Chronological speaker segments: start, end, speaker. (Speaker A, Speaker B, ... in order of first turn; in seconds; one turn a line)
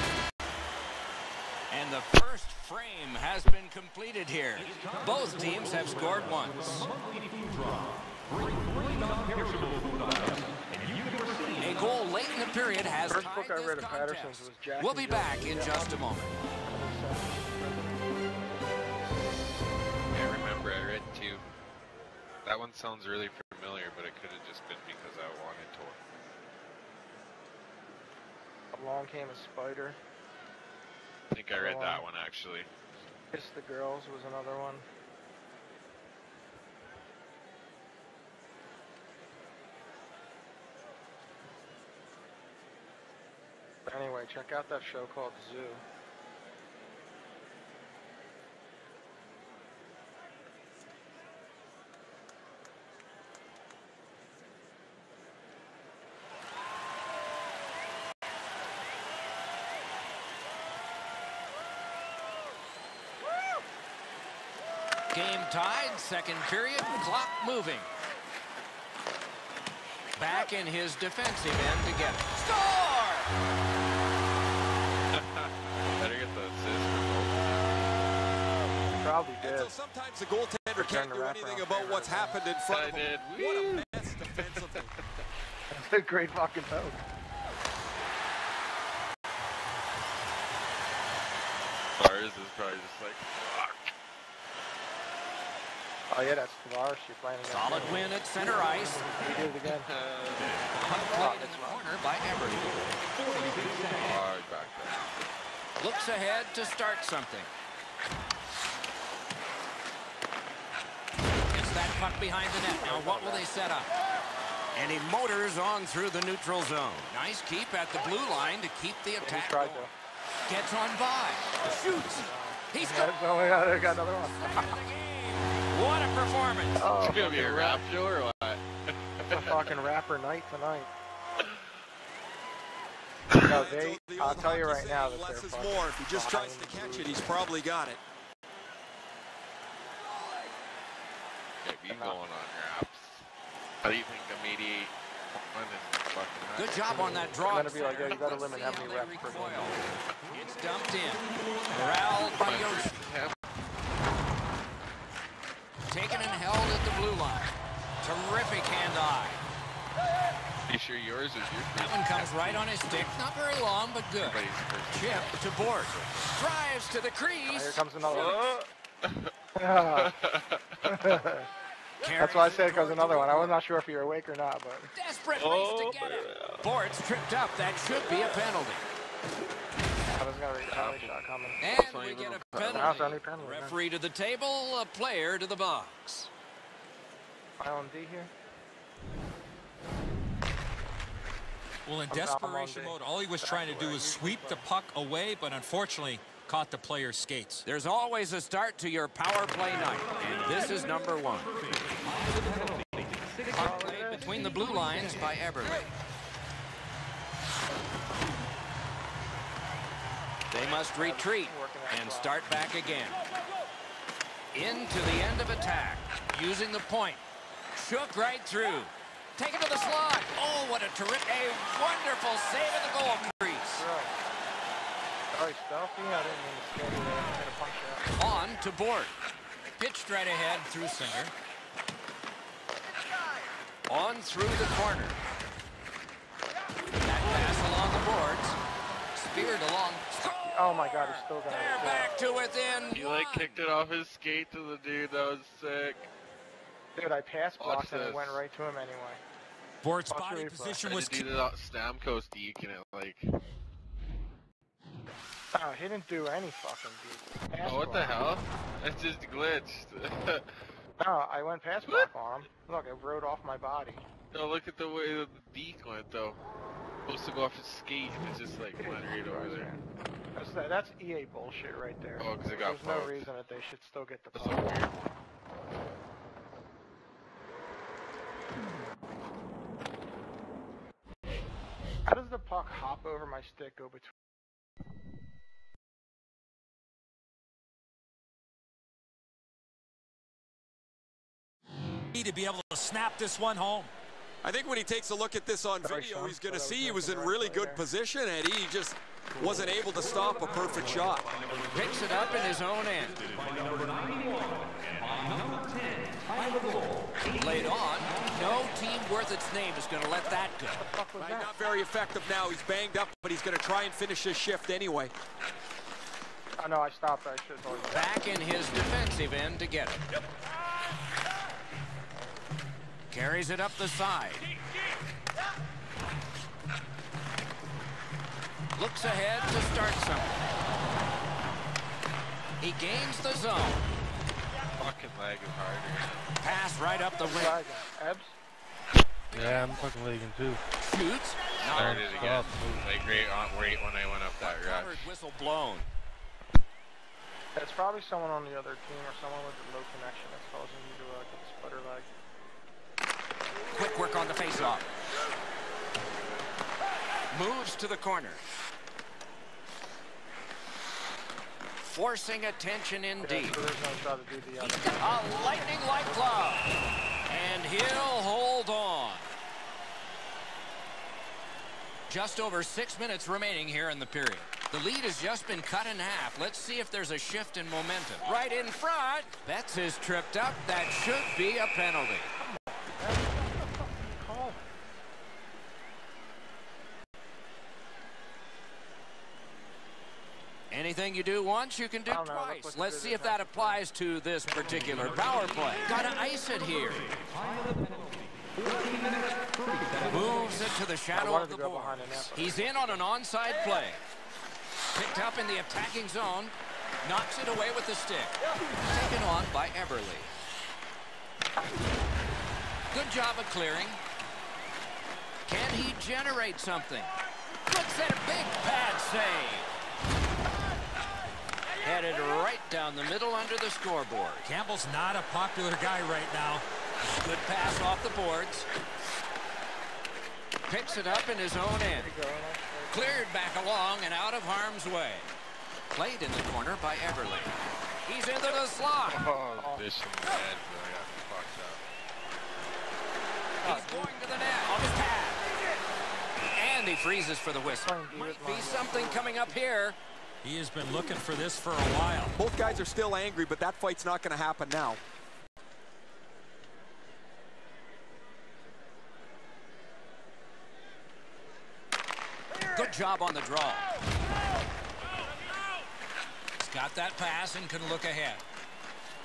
Speaker A: 1.7-7.0
Speaker A: 11.5-16.3
Speaker B: 13.0-16.1
Speaker B: 16.6-18.0
Speaker C: 20.1-21.4
Speaker C: 22.4-26.0
Speaker B: 28.7-30.0
Speaker C: 31.3-32.7
Speaker B: 31.5-32.0
Speaker B: 33.3-34.9
Speaker B: 43.9-45.8
Speaker A: 65.1-67.9
Speaker A: 70.2-73.3
Speaker C: 75.1-77.9
Speaker B: 79.0-79.7
Speaker D: 79.4-84.9
Speaker B: 80.8-82.4
Speaker C: 82.7-85.0
Speaker B: 85.7-87.0
Speaker C: 92.0-93.7
Speaker B: 96.1-99.9
Speaker A: 97.5-99.0
Speaker C: 99.7-100.7
Speaker A: 100.8-102.8
Speaker B: 100.9-101.9
Speaker C: 103.7-105.0
Speaker A: 105.8-107.5
Speaker A: 111.5-113.9
Speaker B: 112.8-113.5
Speaker A: 114.7-119.9
Speaker B: 119.2-119.9
Speaker A: 120.5-123.1
Speaker B: 122.1-124.8
Speaker A: 124.1-126.8
Speaker B: 126.8-127.9
Speaker C: 127.0-129.9
Speaker B: 129.2-130.9
Speaker C: 131.4-131.6
Speaker B: 133.4-137.4
Speaker D: 133.4-138.0
Speaker C: 141.6-143.3
Speaker B: 141.9-142.2
Speaker C: 143.8-147.3
Speaker A: 146.6-153.1
Speaker B: 147.0-149.8
Speaker C: 152.4-153.3
Speaker A: 155.9-159.4
Speaker C: 160.7-162.7
Speaker A: 161.7-168.5
Speaker C: 164.2-166.2
Speaker B: 167.4-168.5
Speaker C: 168.0-171.2
Speaker B: 169.6-170.1
Speaker B: 170.8-171.5
Speaker A: 172.0-173.6
Speaker B: 172.2-174.9
Speaker A: 174.9-178.9
Speaker C: 175.4-176.7
Speaker B: 180.1-181.6
Speaker C: 180.7-183.2
Speaker A: 181.6-186.3
Speaker B: 182.7-183.8
Speaker B: 187.6-188.3
Speaker E: 191.8-197.7
Speaker B: 192.1-194.6
Speaker A: 197.7-201.7
Speaker A: 203.4-205.9
Speaker B: 203.5-204.4
Speaker A: 210.5-213.2
Speaker B: 211.0-212.4
Speaker A: 214.5-217.2
Speaker A: 217.7-223.8
Speaker B: 223.8-224.1
Speaker B: 225.3-228.4
Speaker A: 228.2-229.1
Speaker A: 229.8-231.3
Speaker A: 233.9-235.2
Speaker A: 237.0-238.6
Speaker A: 239.1-243.6
Speaker B: 240.2-242.1
Speaker C: 242.9-246.1
Speaker B: 246.9-249.2
Speaker C: 247.6-248.4
Speaker E: 249.8-251.3
Speaker B: 250.1-250.8
Speaker C: 250.8-253.3
Speaker B: 255.5-258.3
Speaker C: 257.6-260.5
Speaker B: 261.0-264.1
Speaker C: 264.3-266.4
Speaker C: 267.1-269.7
Speaker B: 268.8-269.8
Speaker B: 270.3-274.9
Speaker C: 272.2-273.3
Speaker C: 274.3-275.1
Speaker B: 282.1-284.1
Speaker E: 292.1-293.9
Speaker D: 294.4-301.3
Speaker B: 295.8-297.8
Speaker A: 301.7-303.4
Speaker A: 304.9-306.5
Speaker A: 307.2-310.9
Speaker B: 310.8-311.6
Speaker D: 311.2-315.1
Speaker B: 316.6-318.1
Speaker A: 317.9-320.0
Speaker A: 323.1-324.5
Speaker A: 328.8-330.4
Speaker A: 332.6-333.9
Speaker C: 334.8-336.3
Speaker A: 336.4-337.6
Speaker B: 337.2-338.4
Speaker A: 339.3-339.9
Speaker F: 339.3-340.6
Speaker A: 340.8-342.6
Speaker C: 341.6-345.1
Speaker F: 341.7-343.4
Speaker A: 344.4-345.9
Speaker B: 347.5-352.1
Speaker A: 353.7-354.9
Speaker A: 357.3-358.4
Speaker A: 361.8-363.6
Speaker B: 363.2-366.5
Speaker A: 364.6-366.7
Speaker A: 367.3-369.3
Speaker A: 372.1-382.3
Speaker B: 382.4-384.7
Speaker A: 390.7-397.1
Speaker B: 392.1-393.8
Speaker A: 400.0-404.0
Speaker B: 401.1-403.0
Speaker A: 404.9-408.4
Speaker A: 408.9-410.3
Speaker A: 412.9-414.0
Speaker A: 415.4-417.1
Speaker A: 417.6-419.7
Speaker A: 421.8-424.5
Speaker E: 424.4-426.6
Speaker A: 427.1-428.7
Speaker A: 430.7-432.1
Speaker B: 431.9-433.2
Speaker A: 432.9-435.3
Speaker A: 435.9-439.2
Speaker C: 439.1-441.8
Speaker B: 439.6-439.9
Speaker B: 443.6-444.1
Speaker A: 443.6-445.4
Speaker A: 446.5-450.0
Speaker B: 447.6-449.6
Speaker E: 450.4-452.4
Speaker D: 452.4-455.0
Speaker A: 462.7-463.9
Speaker A: 466.6-468.4